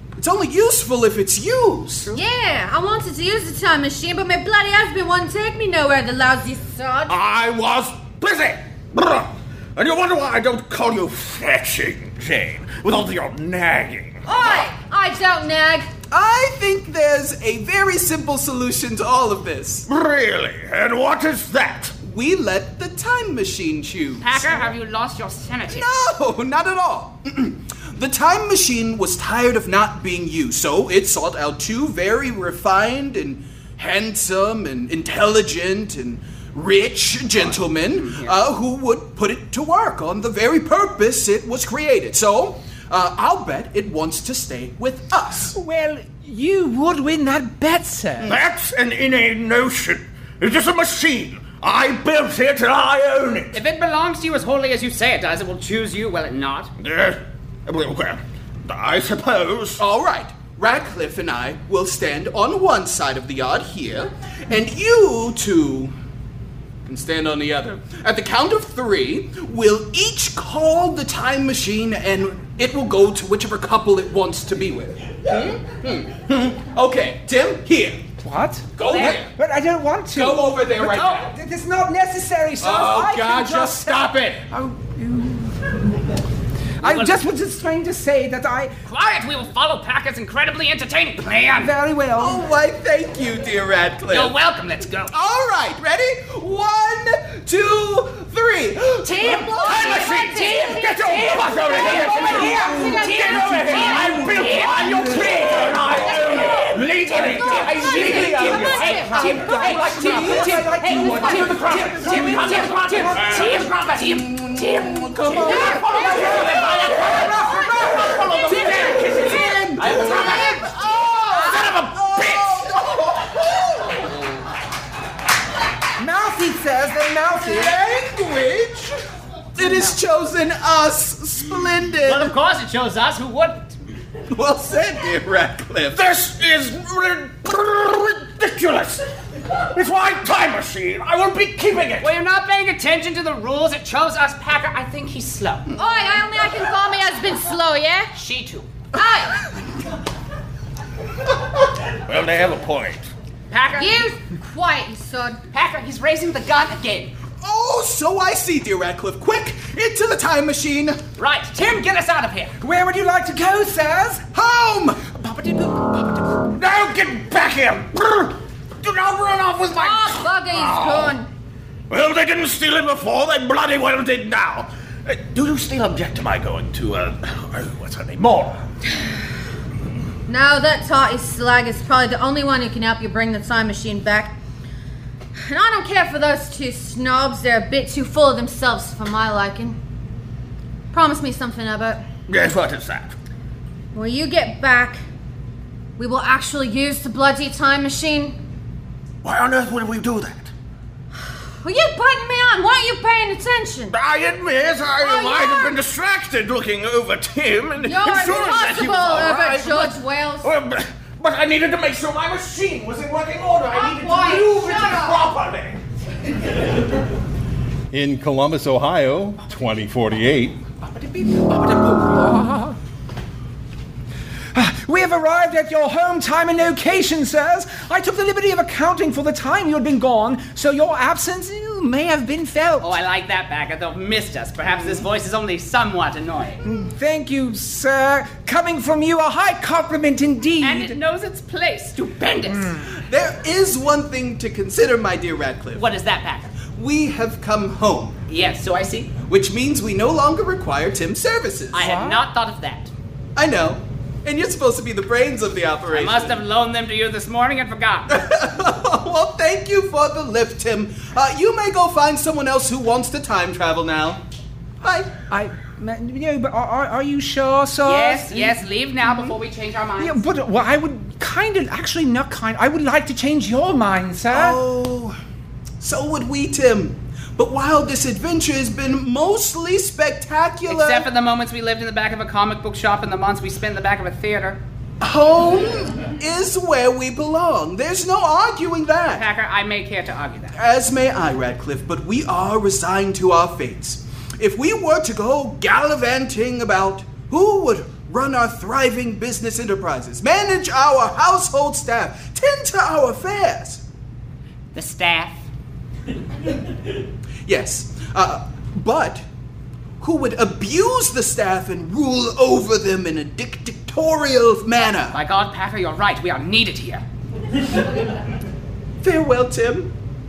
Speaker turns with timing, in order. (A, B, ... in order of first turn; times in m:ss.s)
0:00.2-0:02.1 A
0:02.1-0:07.2 B
0:07.1-0:14.7 C
0:14.2-0:15.9 B
0:16.1-0:19.9 A
0:19.9-0:21.9 C
0:22.0-0:24.8 A
0:24.2-0:25.9 D
0:25.7-0:45.5 A
0:37.3-0:38.4 D
0:45.4-0:48.3 E
0:48.2-0:53.6 C
0:53.5-0:56.7 D
0:56.8-0:59.8 C
0:59.8-1:05.9 A
1:06.8-1:18.0 A
1:18.2-1:25.7 E
1:18.8-1:19.3 A
1:18.8-1:19.2 D
1:20.1-1:21.3 A
1:22.6-1:24.4 A
1:26.8-1:28.7 E
1:26.8-1:27.3 D
1:28.8-1:31.7 D
1:31.6-1:32.4 E
1:32.2-1:34.3 A
1:34.1-1:35.1 D
1:35.1-1:39.8 A
1:39.0-1:49.6 B
1:39.6-1:49.2 C
1:40.4-1:42.6 E
1:42.5-1:43.1 A
1:43.0-1:44.0 D
1:43.5-1:43.9 E
1:44.8-1:45.1 E
1:46.2-1:47.7 E
1:47.4-1:51.2 D
1:49.2-1:53.5 E
1:49.4-1:52.5 A
1:51.1-1:54.2 C
1:52.1-1:54.2 D
1:54.1-1:58.2 A
1:54.6-1:57.7 E
1:55.3-2:02.8 C
1:55.4-1:56.9 B
1:58.3-1:59.0 B
1:58.8-2:04.0 A
2:06.0-2:07.7 E
2:07.4-2:09.0 A
2:09.6-2:12.3 A
2:09.6-2:09.9 D
2:12.0-2:13.8 D
2:14.3-2:16.1 A
2:15.9-2:19.0 C
2:19.7-2:22.1 C
2:22.0-2:25.7 D
2:25.8-2:28.1 B
2:28.1-2:28.7 D
2:28.9-2:29.4 B
2:32.1-2:33.1 C
2:33.5-2:34.1 D
2:33.8-2:35.4 B
2:35.5-2:37.1 D
2:37.4-2:41.0 A
2:41.2-2:42.6 D
2:42.6-2:44.2 E
2:44.3-2:45.0 A
2:45.1-2:46.4 E
2:46.5-2:51.2 C
2:49.8-2:51.3 B
2:51.9-2:58.6 C
3:00.3-3:04.4 B
3:05.4-3:09.8 B
3:10.9-3:12.0 B
3:12.3-3:13.1 C
3:13.9-3:15.0 B
3:16.0-3:18.4 B
3:19.2-3:20.5 C
3:21.6-3:24.0 B
3:23.9-3:35.8 C
3:25.0-3:25.8 B
3:27.8-3:30.5 B
3:33.7-3:35.2 B
3:37.9-3:40.6 F
3:40.8-3:42.8 E
3:44.5-3:53.0 E
3:52.8-3:56.6 D
3:54.7-3:55.0 A
3:56.6-4:01.0 E
4:00.6-4:02.7 D
4:02.5-4:02.9 E
4:02.9-4:05.8 A
4:05.7-4:06.6 D
4:06.7-4:08.2 A
4:08.3-4:09.1 D
4:09.2-4:11.9 A
4:11.7-4:12.9 D
4:11.8-4:12.2 E
4:13.4-4:16.4 A
4:15.9-4:18.1 D
4:18.1-4:24.2 A
4:24.8-4:25.1 A
4:25.3-4:28.6 E
4:27.8-4:30.2 D
4:29.0-4:29.3 A
4:30.0-4:34.6 E
4:34.3-4:35.1 A
4:35.8-4:41.1 A
4:40.6-4:44.6 D
4:45.0-4:49.2 A
4:49.1-4:50.5 D
4:50.5-5:03.8 A
5:04.7-5:05.4 D
5:07.4-5:09.2 A
5:10.0-5:15.2 A
5:15.1-5:17.0 D
5:19.0-5:19.9 A